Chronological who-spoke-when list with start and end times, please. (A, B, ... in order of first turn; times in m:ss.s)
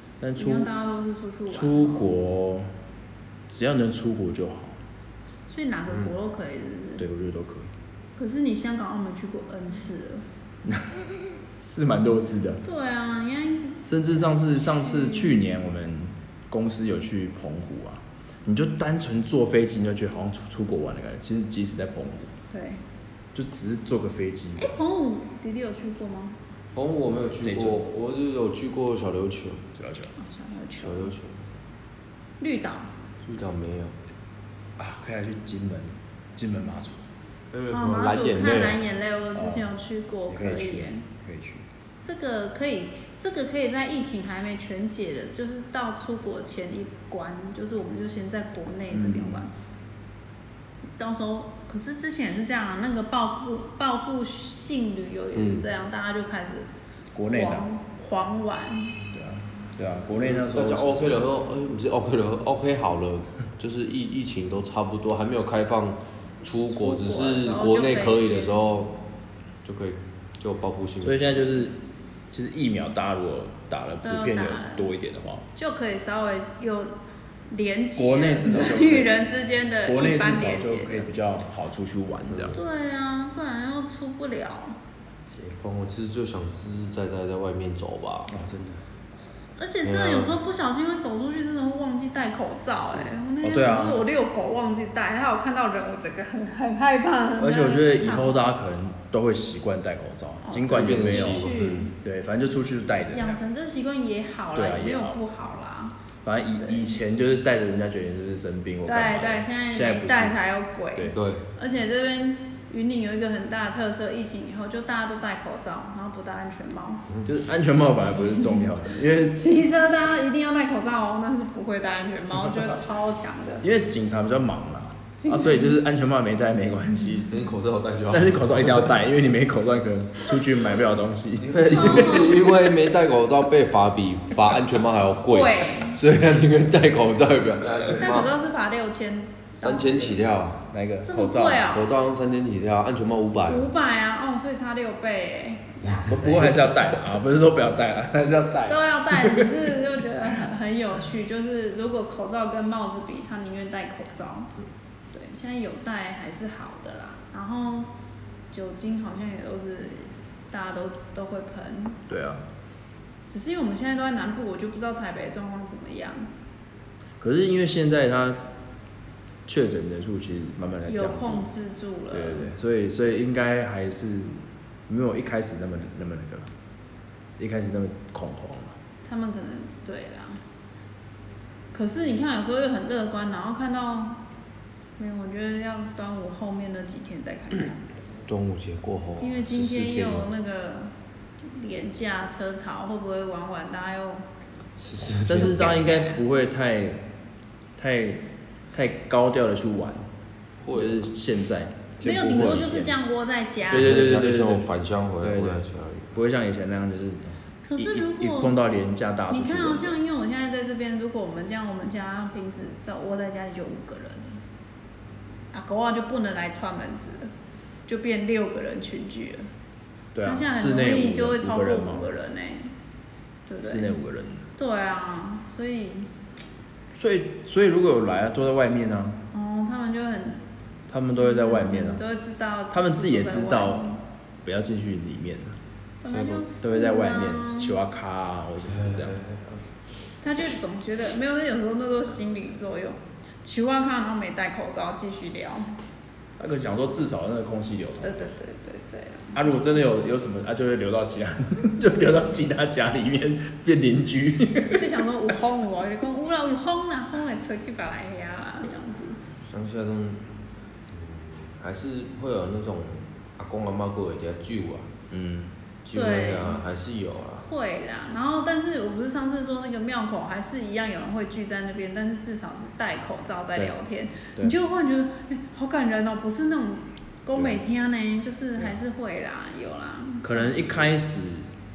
0:00.2-0:00.7 A
0:00.4-0:02.1 B
0:01.5-0:02.7 A
0:03.5-0:04.8 A
0:05.5-0:07.0 B
0:07.0-0:07.7 A
0:08.2-0:10.2 B
0:10.6-0:12.6 A
0:12.6-0:13.9 B
0:13.8-0:22.3 A
0:14.5-0:15.5 B
0:22.5-0:22.8 B
0:23.3-0:24.7 A
0:24.6-0:26.4 B
0:26.7-0:29.6 C
0:27.4-0:27.8 A
0:29.8-0:30.1 A
0:30.2-0:31.1 B
0:30.8-0:31.4 C
0:32.4-0:32.9 B
0:33.3-0:33.9 C
0:34.8-0:37.0 A
0:37.6-0:38.8 C
0:37.7-0:41.0 B
0:39.3-0:39.7 A
0:40.3-0:41.6 A
0:42.0-0:49.5 B
0:48.9-0:49.4 A
0:51.0-0:56.7 B
0:55.3-0:55.6 C
0:57.1-0:57.6 A
0:57.2-0:59.0 B
0:59.1-1:01.3 A
1:00.2-1:09.0 C
1:06.7-1:08.6 B
1:09.6-1:11.5 C
1:11.0-1:11.8 A
1:12.3-1:15.5 A
1:14.0-1:14.9 B
1:15.5-1:16.9 B
1:17.5-1:21.1 B
1:18.0-1:19.2 A
1:19.8-1:22.6 A
1:22.3-1:22.6 C
1:22.5-1:24.8 B
1:25.3-1:28.3 C
1:28.3-1:28.8 A
1:29.6-1:38.4 B
1:29.8-1:30.3 C
1:33.4-1:34.0 A
1:37.4-1:43.4 A
1:40.4-1:41.9 B
1:40.7-1:41.9 C
1:43.1-1:46.0 B
1:44.5-1:45.2 A
1:46.2-1:50.4 A
1:46.6-1:46.9 B
1:48.8-1:57.1 B
1:50.9-1:51.2 A
1:51.1-1:51.4 C
1:57.2-1:59.4 A
1:58.2-2:03.6 B
2:03.6-2:07.4 A
2:05.2-2:05.8 B
2:07.3-2:08.9 C
2:08.1-2:12.3 A
2:11.4-2:18.3 C
2:11.7-2:12.5 B
2:15.3-2:16.0 B
2:18.0-2:20.1 B
2:19.6-2:20.6 C
2:20.6-2:21.7 A
2:21.0-2:21.9 B
2:21.7-2:23.7 C
2:23.5-2:26.1 B
2:26.0-2:26.8 C
2:26.1-2:29.6 A
2:28.7-2:34.5 B
2:35.1-2:37.9 B
2:38.5-2:42.0 B
2:42.1-2:42.4 A
2:43.3-2:46.3 B
2:47.2-2:48.4 A
2:49.4-2:51.5 A
2:50.8-2:52.5 B
2:52.1-2:56.5 A
2:57.4-2:58.8 A
2:59.0-3:00.4 B
3:01.7-3:04.2 B
3:05.0-3:07.9 B
3:08.3-3:10.3 C
3:09.2-3:10.9 B
3:11.5-3:14.2 B
3:14.8-3:15.8 C
3:15.3-3:17.1 A
3:15.3-3:16.2 B
3:17.8-3:20.1 A
3:20.6-3:21.1 C
3:20.7-3:22.9 A
3:22.0-3:22.7 C
3:22.0-3:24.2 B
3:23.7-3:24.7 A
3:23.7-3:26.1 C
3:25.2-3:30.0 A
3:27.6-3:28.6 B
3:29.3-3:34.4 B
3:35.5-3:37.3 B
3:37.8-3:39.4 B
3:40.1-3:42.1 A
3:40.2-3:42.7 B
3:43.5-3:44.0 B
3:43.6-3:44.4 A
3:44.6-3:46.1 B
3:46.9-3:49.2 A
3:49.3-3:50.4 B
3:50.9-3:52.0 A
3:51.1-3:54.0 B
3:52.7-3:55.6 A
3:56.0-3:57.8 B
3:56.1-3:56.4 C
3:56.6-3:59.2 A
3:58.7-3:59.6 C
4:00.2-4:05.7 B
4:06.4-4:08.2 A
4:08.0-4:09.8 B
4:09.3-4:14.9 A
4:14.7-4:19.2 B
4:19.4-4:20.3 C
4:20.9-4:24.9 C
4:25.1-4:25.5 A
4:25.8-4:27.5 C
4:25.9-4:26.6 B
4:27.4-4:40.6 B
4:40.2-4:41.5 A